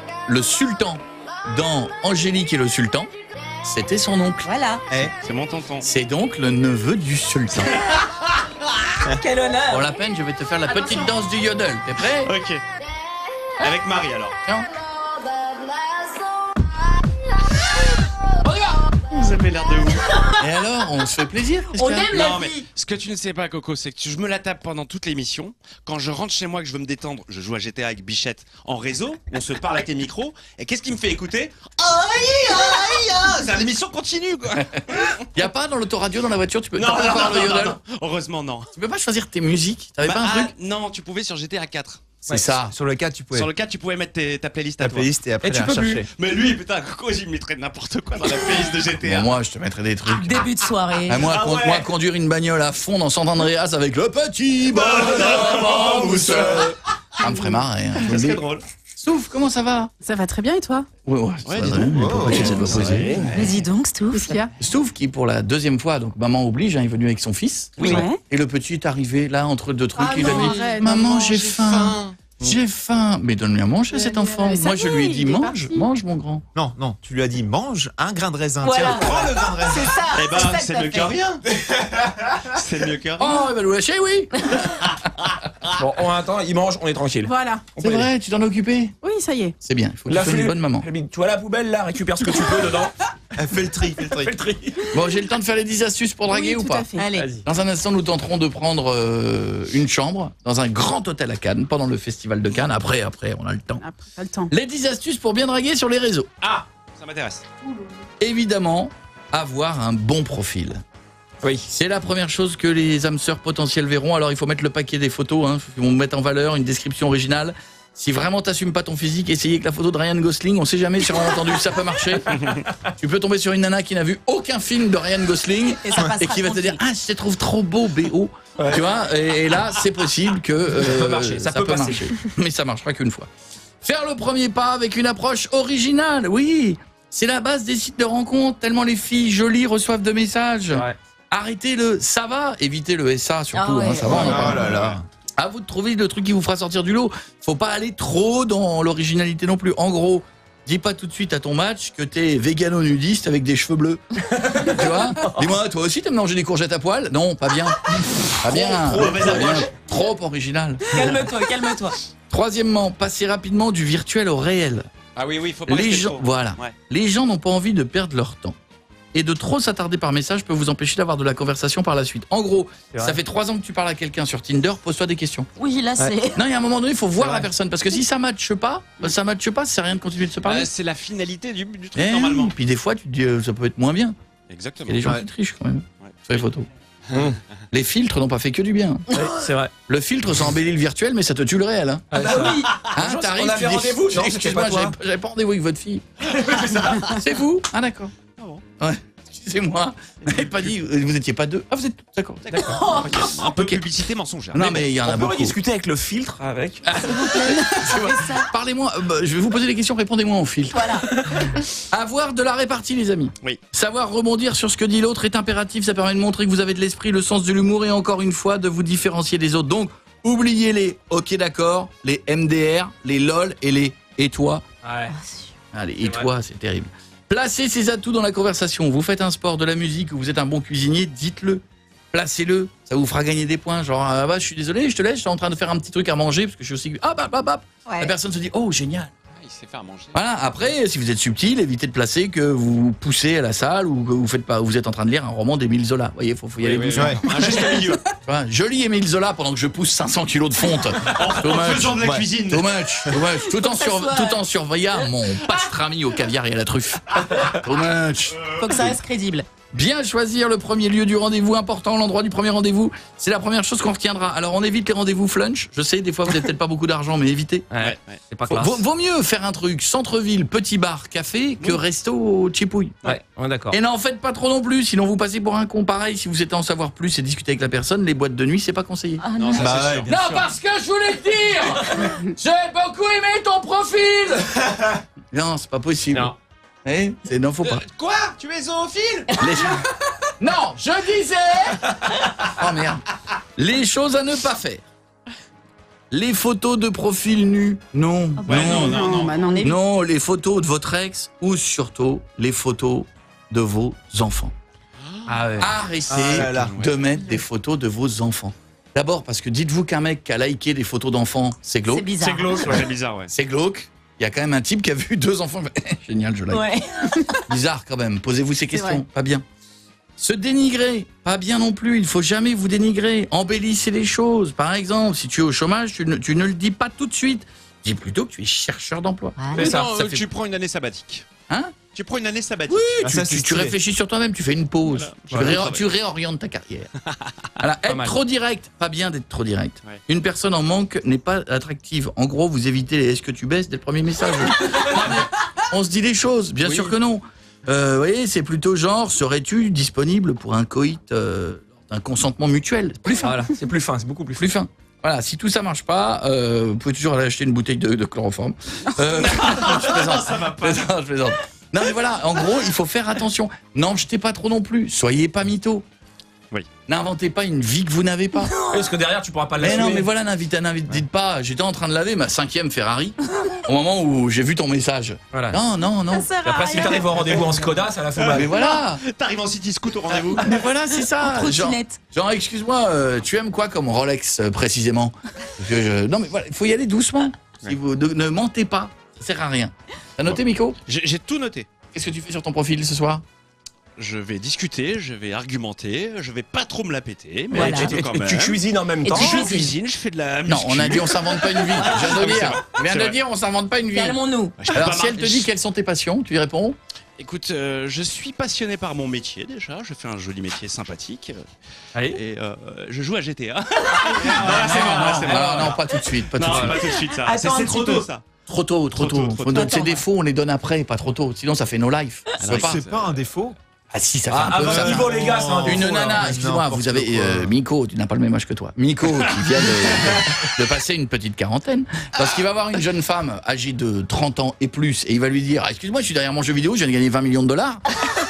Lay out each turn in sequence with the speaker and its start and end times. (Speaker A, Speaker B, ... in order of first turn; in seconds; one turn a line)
Speaker A: 0.3-4.5
Speaker B: 4.4-4.8
Speaker C: 4.9-5.1
Speaker D: 5.2-5.9
Speaker A: 5.8-7.8
Speaker B: 9.2-9.9
Speaker A: 9.7-12.3
Speaker D: 12.2-12.6
Speaker D: 13.6-14.4
Speaker A: 18.5-18.7
Speaker D: 19.1-20.1
Speaker A: 20.4-22.2
Speaker B: 21.8-22.6
Speaker D: 22.1-34.6
Speaker A: 35.3-37.8
Speaker D: 36.8-38.7
Speaker A: 38.7-40.5
Speaker D: 40.0-42.2
Speaker A: 42.3-42.8
Speaker C: 42.3-43.5
Speaker D: 43.3-49.4
Speaker C: 44.8-46.1
Speaker A: 49.0-50.5
Speaker B: 50.1-51.4
Speaker A: 51.1-58.4
Speaker D: 51.2-51.9
Speaker D: 54.7-56.7
Speaker D: 58.0-58.6
Speaker A: 59.0-59.9
Speaker E: 60.0-60.9
Speaker A: 61.0-63.3
Speaker D: 61.5-63.6
Speaker C: 61.6-63.2
Speaker B: 63.3-64.4
Speaker E: 64.1-64.5
Speaker A: 64.6-76.5
Speaker E: 67.8-68.2
Speaker E: 70.0-71.2
Speaker B: 70.0-70.9
Speaker D: 71.1-72.2
Speaker E: 73.9-75.9
Speaker C: 76.5-80.0
Speaker B: 78.6-81.2
Speaker D: 80.1-81.4
Speaker D: 82.5-83.4
Speaker A: 83.2-84.6
Speaker F: 85.8-88.1
Speaker E: 87.2-87.6
Speaker A: 87.8-89.0
Speaker E: 89.0-89.5
Speaker A: 89.6-90.9
Speaker F: 90.1-92.9
Speaker C: 93.4-94.3
Speaker F: 94.1-94.8
Speaker A: 94.9-96.9
Speaker E: 96.3-97.1
Speaker B: 97.0-97.4
Speaker A: 97.5-103.8
Speaker E: 103.8-104.5
Speaker A: 104.5-106.3
Speaker D: 106.4-107.5
Speaker A: 108.2-110.8
Speaker A: 111.7-122.4
Speaker A: 123.0-133.3
Speaker B: 125.8-126.8
Speaker F: 130.8-132.1
Speaker A: 133.8-154.0
Speaker B: 143.5-144.6
Speaker C: 144.1-145.0
Speaker F: 154.5-154.8
Speaker A: 154.7-157.8
Speaker A: 158.4-161.3
Speaker D: 158.5-159.7
Speaker B: 160.9-161.9
Speaker A: 162.3-164.9
Speaker D: 165.2-166.8
Speaker A: 165.7-168.6
Speaker A: 169.1-175.5
Speaker F: 172.9-173.2
Speaker B: 175.6-176.4
Speaker A: 176.3-180.7
Speaker F: 177.2-177.5
Speaker D: 180.4-182.5
Speaker A: 181.9-184.2
Speaker D: 184.5-185.2
Speaker A: 184.9-186.7
Speaker D: 187.1-187.3
Speaker A: 187.7-189.2
Speaker F: 189.1-189.7
Speaker A: 189.9-196.1
Speaker F: 192.1-194.9
Speaker F: 196.3-197.2
Speaker A: 197.1-198.1
Speaker D: 198.4-198.6
Speaker A: 198.8-202.7
Speaker B: 202.6-203.2
Speaker D: 203.0-204.8
Speaker A: 203.4-203.8
Speaker A: 204.5-205.6
Speaker F: 205.0-207.1
Speaker A: 206.8-210.9
Speaker B: 207.2-208.5
Speaker B: 210.7-211.1
Speaker A: 211.9-224.6
Speaker F: 224.8-225.1
Speaker B: 225.1-225.5
Speaker A: 225.7-239.1
Speaker F: 226.0-226.3
Speaker B: 237.9-238.1
Speaker D: 239.3-240.2
Speaker A: 240.1-258.9
Speaker F: 246.6-247.1
Speaker C: 246.9-247.3
Speaker D: 247.2-248.0
Speaker D: 251.1-252.8
Speaker C: 252.0-252.3
Speaker B: 253.4-254.4
Speaker B: 258.5-259.5
Speaker A: 259.7-267.7
Speaker F: 267.7-268.8
Speaker D: 267.8-268.2
Speaker A: 268.5-273.1
Speaker F: 273.0-273.8
Speaker A: 273.7-284.4
Speaker B: 279.2-279.9
Speaker D: 279.4-280.5
Speaker C: 279.6-280.1
Speaker A: 285.3-286.3
Speaker A: 286.9-287.9
Speaker D: 287.6-289.3
Speaker A: 289.4-289.8
Speaker A: 290.4-291.8
Speaker A: 292.5-293.0
Speaker A: 293.6-294.8
Speaker A: 296.1-299.1
Speaker B: 298.4-299.4
Speaker D: 298.5-299.4
Speaker E: 298.5-299.8
Speaker A: 299.6-304.5
Speaker D: 305.0-305.6
Speaker F: 305.3-305.7
Speaker A: 305.6-312.1
Speaker C: 306.1-306.8
Speaker D: 306.6-307.0
Speaker B: 311.9-312.8
Speaker D: 312.2-313.3
Speaker A: 313.3-316.7
Speaker B: 316.5-317.4
Speaker A: 317.5-319.4
Speaker A: 320.2-330.2
Speaker B: 329.4-329.8
Speaker D: 329.6-331.3
Speaker F: 329.6-330.0
Speaker A: 331.5-331.8
Speaker D: 331.9-332.9
Speaker A: 332.7-336.9
Speaker C: 333.0-333.8
Speaker D: 334.9-335.8
Speaker F: 335.3-335.6
Speaker A: 337.6-353.4
Speaker F: 337.9-338.2
Speaker F: 346.6-346.9
Speaker F: 353.2-354.5
Speaker A: 354.4-365.9
Speaker D: 359.1-360.9
Speaker A: 366.9-368.5
Speaker B: 368.4-368.9
Speaker F: 368.7-370.1
Speaker A: 369.6-376.4
Speaker F: 375.3-375.6
Speaker B: 376.1-377.2
Speaker F: 376.4-378.6
Speaker D: 377.1-377.6
Speaker D: 378.2-380.6
Speaker A: 378.3-379.0
Speaker A: 380.4-390.8
Speaker B: 381.1-382.0
Speaker D: 390.9-391.7
Speaker A: 391.9-393.2
Speaker D: 394.0-403.2
Speaker A: 397.5-398.0
Speaker B: 397.5-397.9
Speaker F: 397.7-399.6
Speaker B: 399.1-399.7
Speaker A: 400.5-406.8
Speaker B: 403.9-404.6
Speaker D: 404.6-405.5
Speaker D: 407.2-411.5
Speaker D: 412.1-418.2
Speaker A: 414.4-416.9
Speaker F: 414.7-415.8
Speaker F: 416.4-416.8
Speaker C: 417.2-418.1
Speaker A: 418.5-422.8
Speaker D: 419.0-419.7
Speaker B: 419.5-420.0
Speaker D: 422.4-423.2
Speaker C: 422.4-423.6
Speaker A: 423.9-437.8
Speaker F: 424.3-426.3
Speaker C: 424.4-427.5